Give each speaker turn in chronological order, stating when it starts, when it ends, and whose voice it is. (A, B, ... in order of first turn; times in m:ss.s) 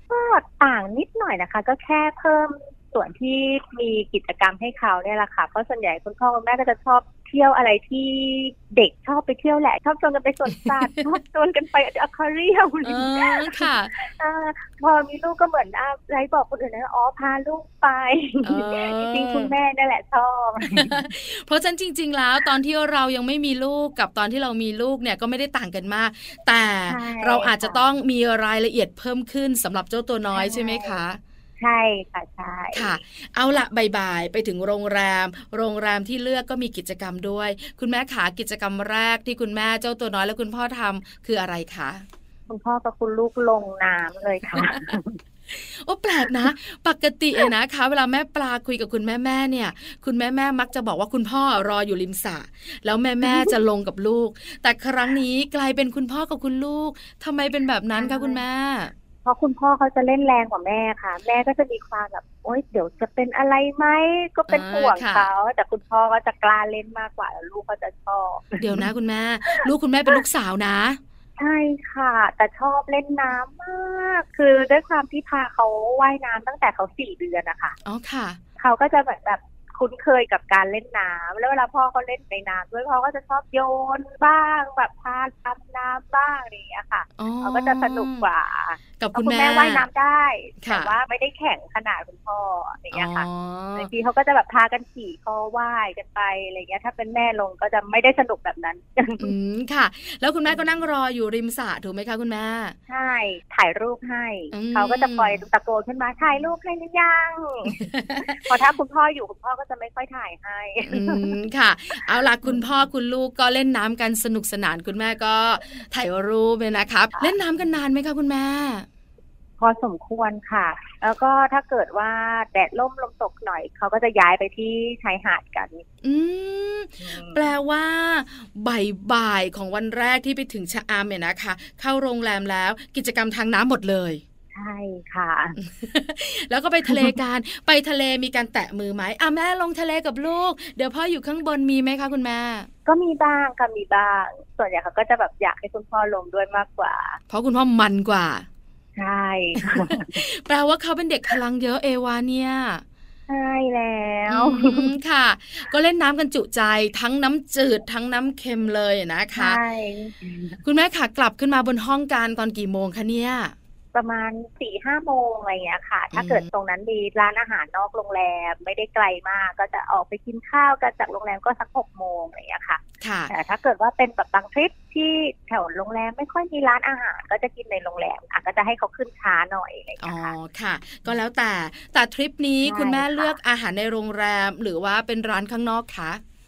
0:00.1-0:21.0 A
0:12.8-0:13.9 B
0:18.4-0:19.5 B
0:20.6-0:31.2 B
0:26.9-0:27.8 A
0:30.3-0:31.0 A
0:31.6-0:33.0 A
0:32.7-0:42.0 B
0:42.5-0:45.2 A
0:44.6-0:44.9 B
0:45.5-0:58.9 B
0:53.2-0:53.5 A
0:58.0-0:58.4 A
0:59.2-1:08.9 A
1:04.5-1:05.3 B
1:08.6-1:11.0 B
1:09.5-1:10.2 A
1:11.4-1:17.8 A
1:17.8-1:18.4 B
1:18.6-1:39.3 A
1:27.2-1:28.3 B
1:29.0-1:29.9 B
1:30.6-1:30.9 B
1:32.9-1:33.9 B
1:39.2-1:42.8 B
1:42.9-1:51.3 A
1:44.5-1:45.4 B
1:47.8-1:48.5 B
1:50.8-1:58.9 B
1:59.6-2:05.8 A
2:06.0-2:14.2 B
2:07.0-2:07.4 A
2:14.5-2:15.6 A
2:15.6-2:22.7 B
2:16.8-2:17.1 A
2:22.9-2:27.2 A
2:27.3-2:28.4 B
2:29.0-2:30.2 A
2:29.6-2:32.8 B
2:33.3-2:34.9 A
2:34.3-2:39.6 B
2:39.3-2:40.6 A
2:40.6-2:43.6 B
2:43.9-3:00.3 A
2:46.1-2:46.5 B
2:53.0-2:53.3 B
3:00.0-3:06.2 B
3:02.6-3:03.4 A